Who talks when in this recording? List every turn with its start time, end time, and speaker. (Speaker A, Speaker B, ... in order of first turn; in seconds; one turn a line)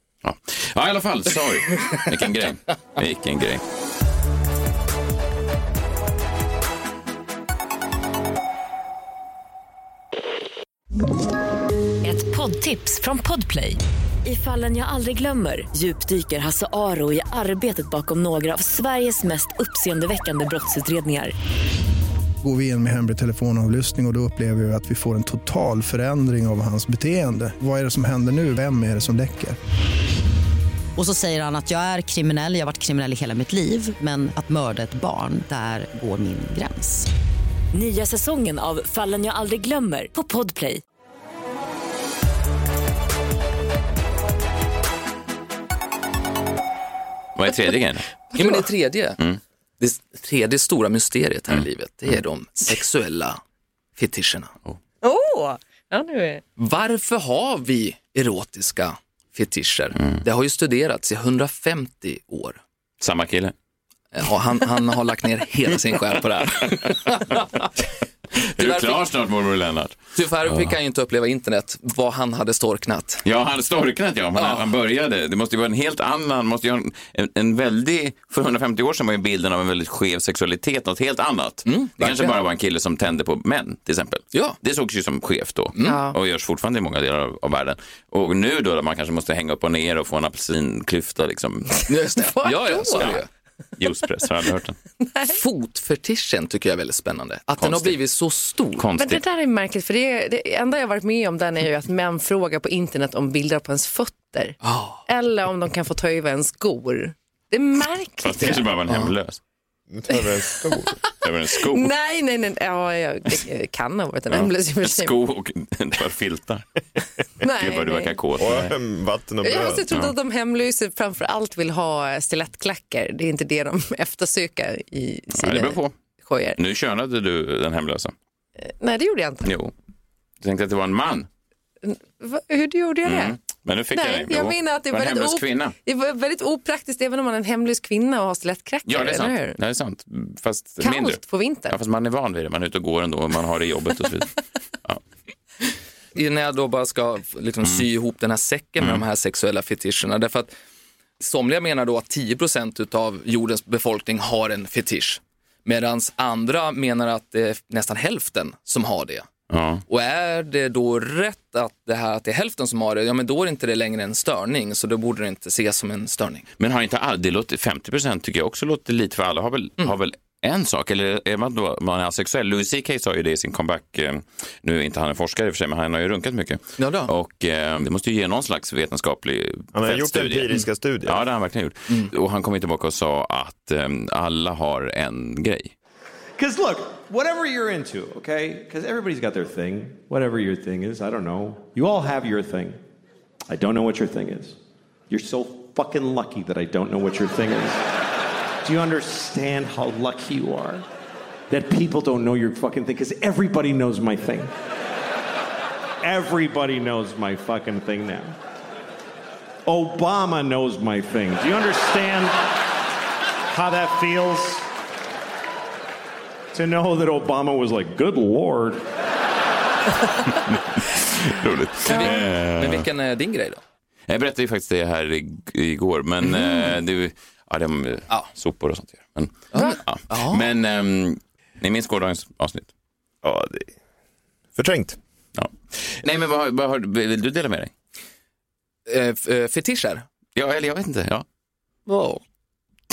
Speaker A: 0.2-3.6
Speaker B: 12.0-21.3
Speaker C: 22.4-29.6
Speaker D: 30.9-37.1
Speaker B: 37.7-40.8
Speaker A: 47.4-48.1
Speaker E: 48.3-48.6
Speaker F: 48.4-49.2
Speaker F: 49.8-53.4
Speaker A: 51.5-52.1
Speaker F: 54.0-54.5
Speaker E: 55.0-56.4
Speaker F: 56.6-62.6
Speaker A: 63.0-63.5
Speaker F: 64.1-67.7
Speaker A: 66.6-67.4
Speaker A: 68.4-70.7
Speaker F: 68.4-69.0
Speaker F: 70.1-73.2
Speaker A: 73.2-91.8
Speaker F: 74.4-74.7
Speaker F: 81.6-82.4
Speaker F: 84.3-84.6
Speaker F: 85.7-86.0
Speaker E: 85.8-86.2
Speaker E: 91.8-93.2
Speaker F: 91.9-93.3
Speaker A: 93.8-94.8
Speaker E: 95.0-95.4
Speaker F: 95.3-98.8
Speaker A: 97.6-98.0
Speaker A: 98.8-99.2
Speaker E: 99.0-104.6
Speaker F: 104.6-105.0
Speaker E: 105.1-108.7
Speaker A: 108.2-109.4
Speaker G: 109.9-111.0
Speaker E: 110.1-111.0
Speaker A: 111.2-111.9
Speaker E: 111.5-115.2
Speaker A: 114.3-116.6
Speaker E: 117.4-118.2
Speaker A: 117.4-118.7
Speaker G: 118.4-120.0
Speaker E: 119.4-126.6
Speaker A: 125.3-126.0
Speaker A: 126.6-128.1
Speaker E: 128.6-129.5
Speaker A: 129.4-129.7
Speaker A: 130.4-131.3
Speaker E: 131.8-139.6
Speaker A: 133.0-135.7
Speaker A: 138.8-144.3
Speaker E: 140.8-141.8
Speaker F: 146.1-150.5
Speaker F: 151.2-159.3
Speaker A: 159.5-159.8
Speaker F: 159.9-166.5
Speaker A: 166.6-180.5
Speaker F: 176.8-177.1
Speaker G: 179.7-181.2
Speaker A: 181.0-185.7
Speaker H: 186.4-192.8
Speaker H: 193.5-194.6
Speaker H: 195.1-197.8
Speaker H: 198.6-200.8
Speaker H: 201.5-204.5
Speaker H: 206.0-208.4
Speaker H: 209.7-212.4
Speaker H: 213.5-214.7
Speaker H: 216.5-218.8
Speaker A: 220.3-222.9
Speaker F: 221.9-223.6
Speaker E: 221.9-222.2
Speaker A: 224.1-232.7
Speaker F: 229.5-230.5
Speaker G: 233.2-233.7
Speaker G: 234.6-235.0
Speaker A: 235.3-237.7
Speaker F: 238.9-240.0
Speaker A: 240.3-241.2
Speaker F: 241.9-242.2